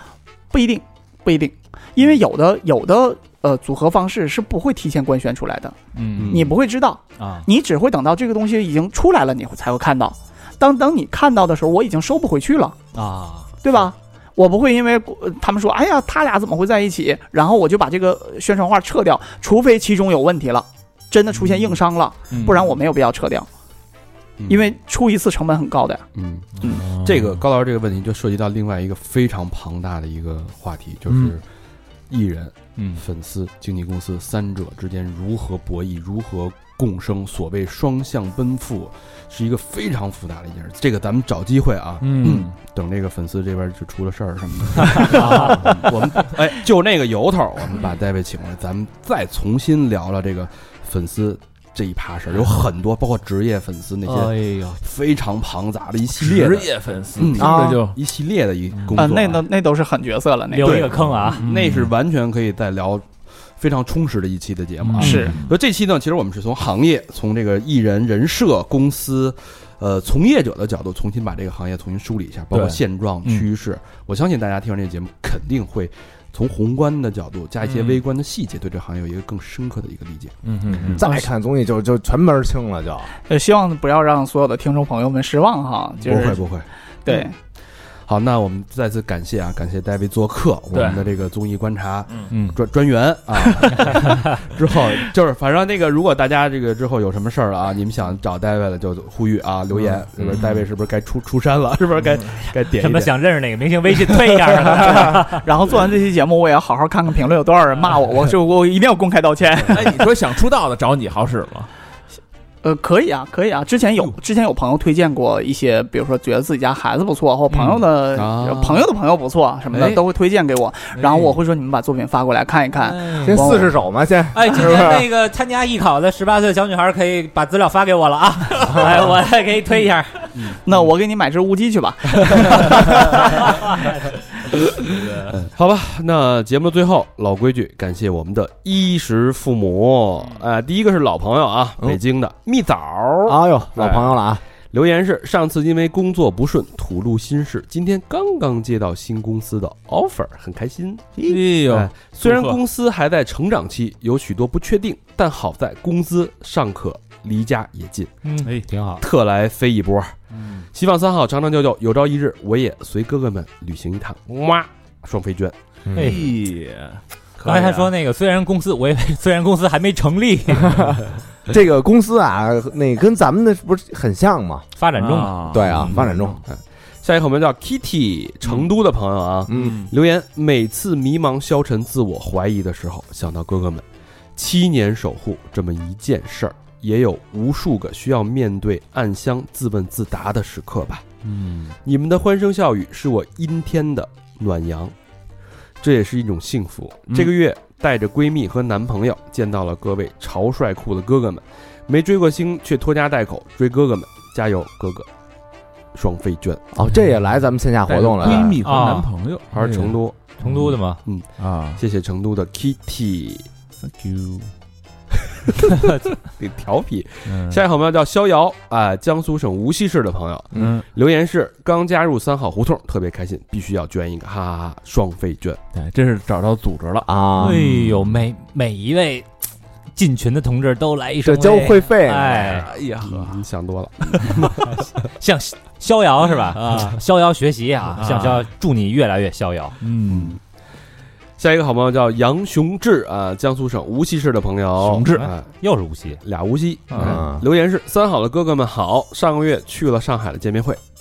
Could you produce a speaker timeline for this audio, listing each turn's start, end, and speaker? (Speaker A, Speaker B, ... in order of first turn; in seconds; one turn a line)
Speaker A: 0.5-5.8
Speaker B: 6.0-6.5
Speaker C: 6.2-6.5
Speaker A: 6.3-12.8
Speaker B: 7.2-7.5
Speaker B: 12.9-13.9
Speaker A: 13.6-23.5
Speaker B: 22.3-22.7
Speaker A: 24.5-26.1
Speaker C: 26.2-31.4
Speaker D: 26.7-27.4
Speaker D: 31.1-31.4
Speaker C: 32.1-59.4
Speaker B: 32.8-33.0
Speaker D: 42.0-42.6
Speaker D: 45.0-46.3
Speaker B: 45.0-45.9
Speaker D: 54.1-54.8
Speaker D: 56.2-58.0
Speaker E: 57.3-57.9
Speaker D: 58.7-59.2
Speaker A: 59.0-60.9
Speaker B: 60.5-61.4
Speaker D: 60.6-61.9
Speaker C: 60.7-63.1
Speaker C: 63.6-80.3
Speaker D: 64.8-65.6
Speaker A: 65.0-65.3
Speaker D: 72.5-72.8
Speaker D: 77.6-78.0
Speaker D: 80.4-81.1
Speaker E: 80.7-83.1
Speaker A: 81.0-81.3
Speaker A: 83.3-86.5
Speaker C: 86.0-86.7
Speaker A: 87.0-87.4
Speaker C: 88.1-103.1
Speaker D: 90.7-91.0
Speaker D: 92.1-92.3
Speaker B: 92.3-92.6
Speaker B: 93.8-94.2
Speaker D: 99.7-100.6
Speaker D: 102.0-102.3
Speaker B: 102.8-105.5
Speaker A: 104.7-110.1
Speaker D: 109.7-111.7
Speaker A: 112.6-123.7
Speaker B: 117.5-117.9
Speaker C: 118.2-118.8
Speaker B: 119.7-120.0
Speaker D: 121.0-121.3
Speaker B: 122.8-123.5
Speaker E: 123.2-125.1
Speaker B: 124.3-130.5
Speaker A: 130.6-133.9
Speaker C: 135.3-144.2
Speaker E: 143.3-144.4
Speaker C: 144.7-151.1
Speaker D: 151.2-152.6
Speaker C: 151.7-158.1
Speaker B: 158.2-159.0
Speaker D: 158.4-158.7
Speaker C: 159.0-160.2
Speaker D: 160.3-160.7
Speaker C: 160.7-165.6
Speaker E: 165.9-166.3
Speaker B: 165.9-166.3
Speaker D: 165.9-167.9
Speaker B: 167.4-171.0
Speaker E: 171.5-174.7
Speaker B: 174.8-176.1
Speaker D: 174.9-176.4
Speaker E: 175.5-176.4
Speaker C: 176.5-183.8
Speaker E: 179.5-179.8
Speaker D: 179.5-179.9
Speaker C: 184.4-191.1
Speaker D: 191.2-191.8
Speaker C: 191.8-194.9
Speaker C: 195.8-205.1
Speaker C: 205.9-206.6
Speaker E: 206.7-208.6
Speaker D: 206.9-211.8
Speaker B: 208.6-209.1
Speaker C: 209.5-210.2
Speaker B: 210.4-211.0
Speaker C: 211.1-213.5
Speaker D: 213.8-214.5
Speaker C: 216.4-225.6
Speaker D: 217.2-217.6
Speaker D: 220.5-220.9
Speaker D: 225.7-228.2
Speaker E: 227.1-227.7
Speaker B: 227.4-229.3
Speaker B: 229.9-232.7
Speaker E: 231.2-232.4
Speaker D: 232.2-233.4
Speaker C: 232.8-234.7
Speaker D: 234.0-234.4
Speaker B: 234.7-239.8
Speaker D: 236.5-237.0
Speaker D: 237.9-238.5
Speaker D: 239.8-240.4
Speaker C: 240.1-240.4
Speaker C: 241.4-245.5
Speaker D: 244.8-245.3
Speaker B: 245.2-246.2
Speaker C: 246.2-250.8
Speaker D: 246.9-247.2
Speaker E: 247.0-247.4